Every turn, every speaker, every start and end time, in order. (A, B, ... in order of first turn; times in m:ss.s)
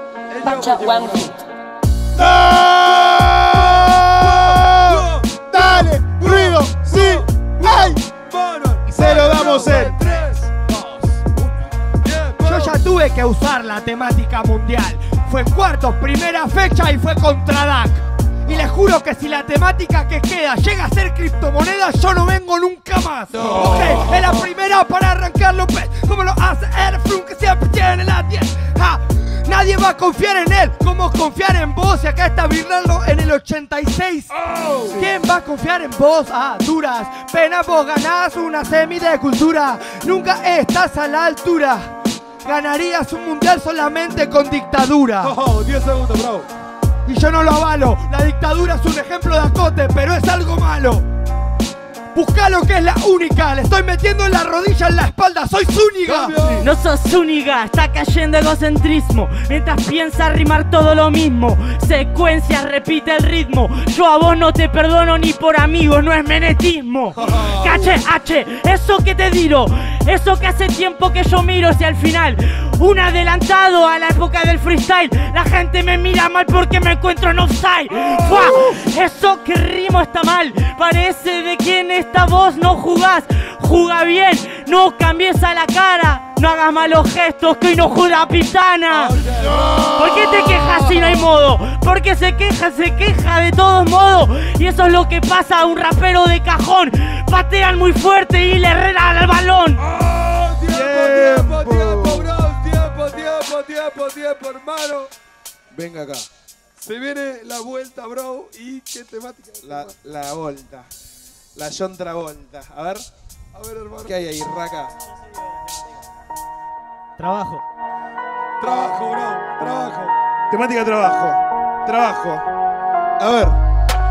0:00.3-0:01.4 A
0:02.1-0:08.0 B
0:02.8-0:10.6 A
0:08.9-0:10.0 B
0:09.4-0:09.7 C
0:12.0-0:12.8 A
0:12.4-0:34.3 C
0:23.3-0:24.1 A
0:34.6-0:34.9 A
0:34.9-0:41.9 C
0:42.4-0:45.3 C
0:45.2-0:46.5 A
0:47.0-0:51.0 C
0:52.1-0:56.4 C
0:56.0-0:56.7 A
0:56.6-1:29.2 D
1:07.2-1:07.9 A
1:28.9-1:29.8 A
1:29.3-1:31.0 B
1:29.9-1:39.8 D
1:39.9-1:45.1 A
1:40.7-1:42.3 B
1:45.7-1:46.3 B
1:46.8-1:49.9 A
1:49.6-1:50.9 B
1:51.5-1:53.1 B
1:53.5-1:54.2 A
1:54.0-1:54.9 B
1:57.2-1:57.6 D
1:58.6-2:00.1 A
2:00.5-2:02.5 B
2:03.2-2:03.6 B